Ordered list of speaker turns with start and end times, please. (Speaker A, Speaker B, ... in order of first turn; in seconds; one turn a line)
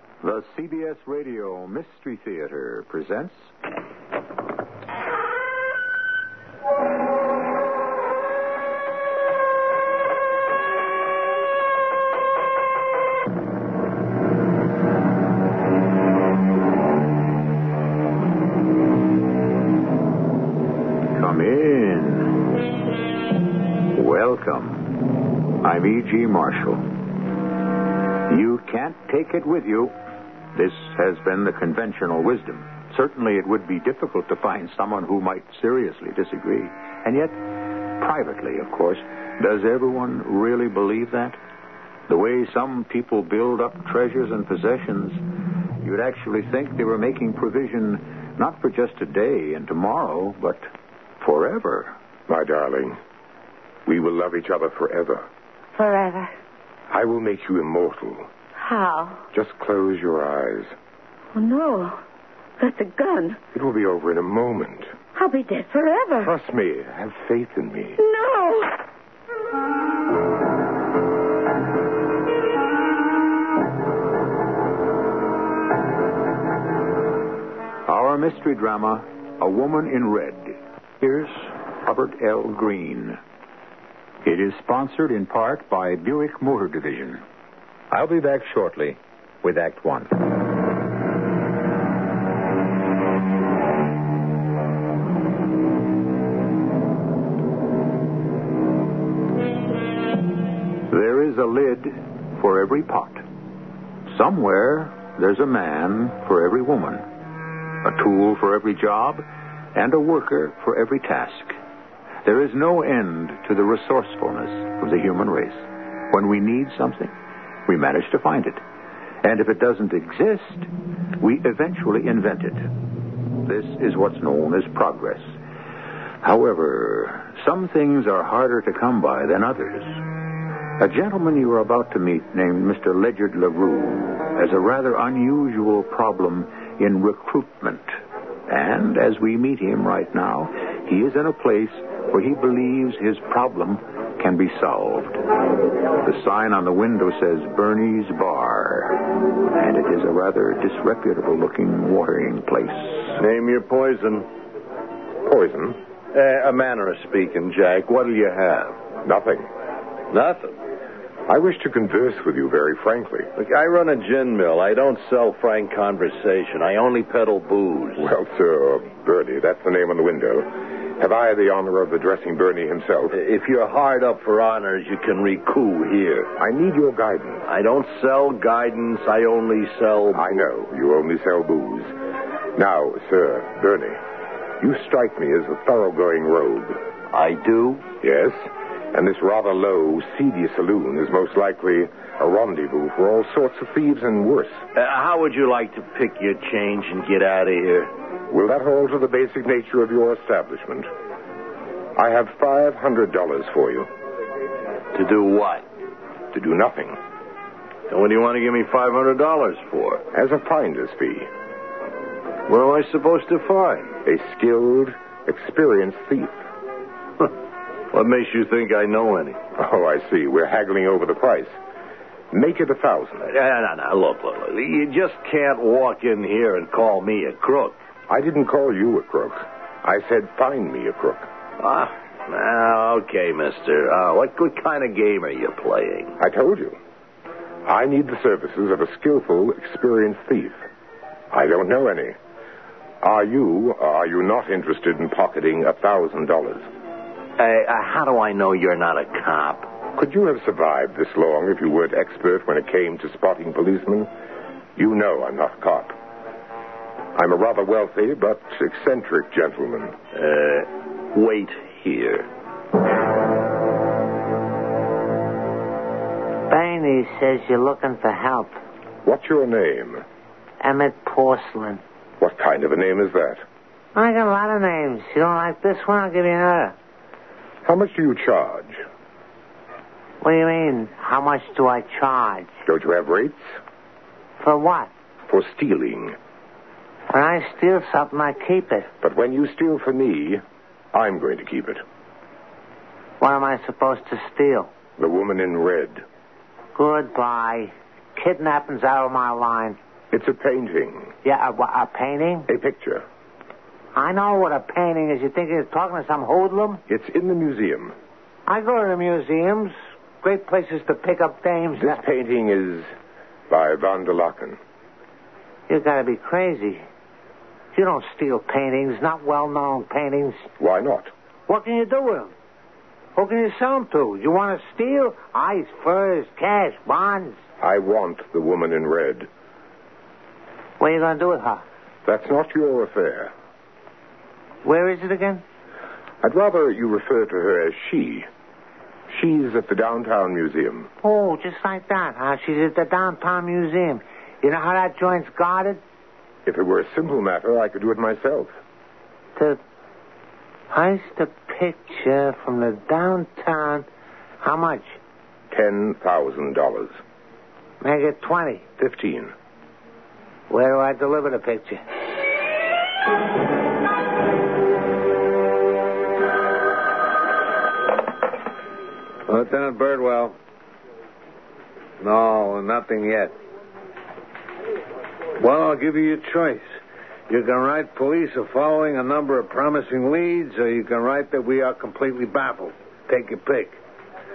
Speaker A: 0.2-3.5
Speaker A: 21.1-22.4
Speaker A: 23.9-26.9
Speaker A: 28.3-29.9
Speaker A: 30.5-37.4
Speaker A: 38.0-41.4
Speaker A: 42.1-45.2
Speaker A: 45.8-50.7
Speaker A: 51.2-51.9
Speaker B: 52.3-53.0
Speaker B: 53.9-55.2
Speaker C: 55.8-56.3
Speaker B: 56.9-58.3
Speaker C: 58.6-59.2
Speaker B: 59.3-60.7
Speaker C: 61.3-62.0
Speaker C: 62.6-63.4
Speaker B: 63.5-64.9
Speaker C: 65.1-66.3
Speaker B: 66.2-68.0
Speaker C: 68.0-68.7
Speaker A: 77.8-83.2
Speaker A: 84.2-87.2
Speaker A: 87.9-90.3
Speaker A: 100.9-103.2
Speaker A: 104.1-107.1
Speaker A: 107.8-111.6
Speaker A: 112.2-117.1
Speaker A: 117.7-118.6
Speaker A: 119.2-122.7
Speaker A: 123.4-125.3
Speaker A: 126.2-130.0
Speaker A: 130.8-145.2
Speaker A: 146.0-153.2
Speaker D: 153.2-154.3
Speaker B: 155.2-155.8
Speaker D: 156.1-158.8
Speaker B: 159.0-159.5
Speaker D: 160.1-160.5
Speaker B: 161.3-163.3
Speaker D: 163.4-168.1
Speaker B: 168.0-173.2
Speaker D: 173.1-176.3
Speaker B: 176.4-177.4
Speaker D: 177.5-180.4
Speaker B: 180.1-181.9
Speaker B: 182.5-184.0
Speaker B: 184.6-186.8
Speaker D: 187.1-187.8
Speaker B: 188.0-194.6
Speaker D: 194.7-197.9
Speaker B: 198.3-200.9
Speaker B: 201.9-203.9
Speaker D: 204.9-205.6
Speaker B: 206.3-207.0
Speaker D: 207.9-210.0
Speaker B: 210.1-211.3
Speaker D: 212.5-213.9
Speaker B: 214.0-216.4
Speaker D: 217.9-219.4
Speaker B: 219.6-221.5
Speaker B: 222.3-223.3
Speaker D: 223.2-227.8
Speaker B: 228.1-231.2
Speaker D: 231.6-236.1
Speaker B: 236.2-236.8
Speaker B: 237.7-240.6
Speaker B: 241.3-242.2
Speaker B: 243.0-246.7
Speaker D: 247.4-249.7
Speaker B: 250.0-254.1
Speaker B: 254.8-255.9
Speaker B: 257.1-259.9
Speaker D: 260.1-262.3
Speaker E: 266.5-268.6
Speaker B: 269.0-270.0
Speaker E: 270.6-271.8
Speaker B: 272.2-273.4
Speaker E: 273.9-276.7
Speaker B: 277.6-278.8
Speaker E: 280.2-282.5
Speaker B: 282.6-283.4
Speaker E: 284.4-284.9
Speaker B: 285.3-286.1
Speaker E: 287.1-288.9
Speaker B: 289.0-291.8
Speaker E: 293.2-294.7
Speaker B: 295.0-296.0
Speaker E: 296.7-299.8
Speaker B: 300.1-301.1
Speaker E: 301.2-302.5
Speaker B: 302.5-303.0
Speaker E: 303.9-306.8
Speaker B: 306.9-307.9
Speaker E: 308.4-312.0
Speaker B: 311.8-312.9
Speaker B: 313.5-314.6
Speaker E: 315.7-316.8
Speaker E: 317.7-320.5
Speaker B: 320.6-321.1
Speaker E: 321.5-322.3
Speaker E: 323.1-327.4
Speaker B: 327.6-329.3
Speaker E: 330.8-331.6
Speaker B: 332.1-333.3
Speaker E: 334.6-335.4
Speaker B: 336.2-338.3
Speaker B: 339.1-340.9
Speaker E: 341.0-345.8
Speaker B: 346.4-348.5
Speaker E: 350.7-353.9
Speaker E: 354.4-355.0
Speaker B: 355.5-357.0
Speaker E: 357.8-358.6
Speaker B: 358.8-359.3
Speaker E: 360.5-361.8
Speaker F: 369.3-370.3
Speaker F: 372.0-373.3
Speaker F: 375.4-376.8
Speaker F: 377.3-383.8